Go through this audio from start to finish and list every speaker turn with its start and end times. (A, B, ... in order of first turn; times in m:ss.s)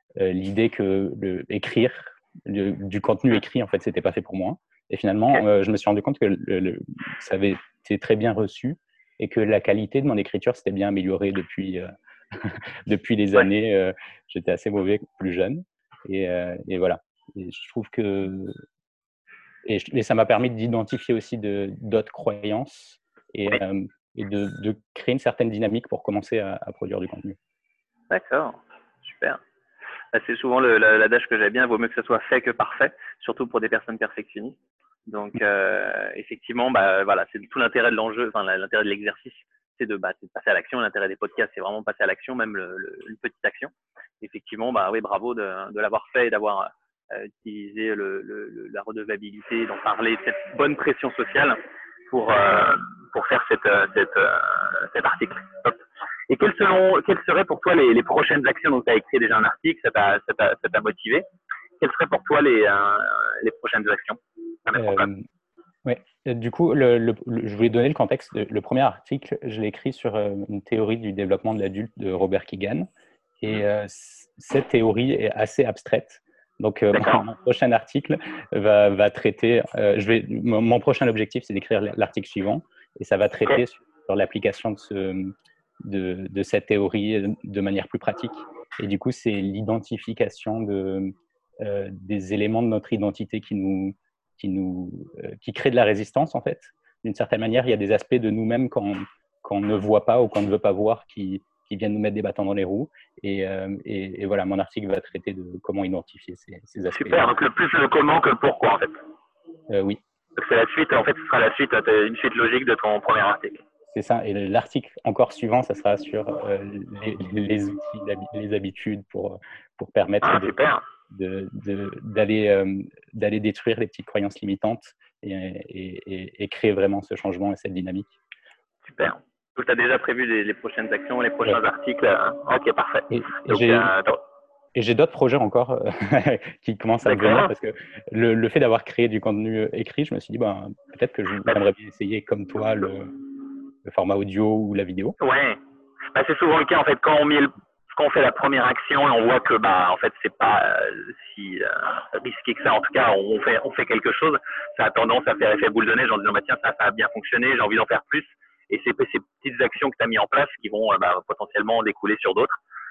0:00.2-0:18.6 A
0:19.6-0:27.4 A
0:28.1-0:29.4 B
0:30.1-0:34.6 B
0:35.1-0:51.6 B
0:52.1-1:01.2 B
1:01.8-1:05.1 B
1:04.8-1:05.2 A
1:05.8-1:12.9 A
1:13.4-1:25.3 A
1:16.9-1:17.2 B
1:25.8-1:47.3 A
1:46.9-1:49.0 B
1:49.7-1:50.0 A
1:50.4-1:53.6 B
1:53.9-2:00.6 A
2:00.2-2:00.8 B
2:01.1-2:08.2 A
2:08.8-2:14.2 B
2:13.1-2:13.9 A
2:14.8-2:23.1 A
2:17.0-2:17.5 B
2:23.8-2:25.2 A
2:25.2-2:42.6 B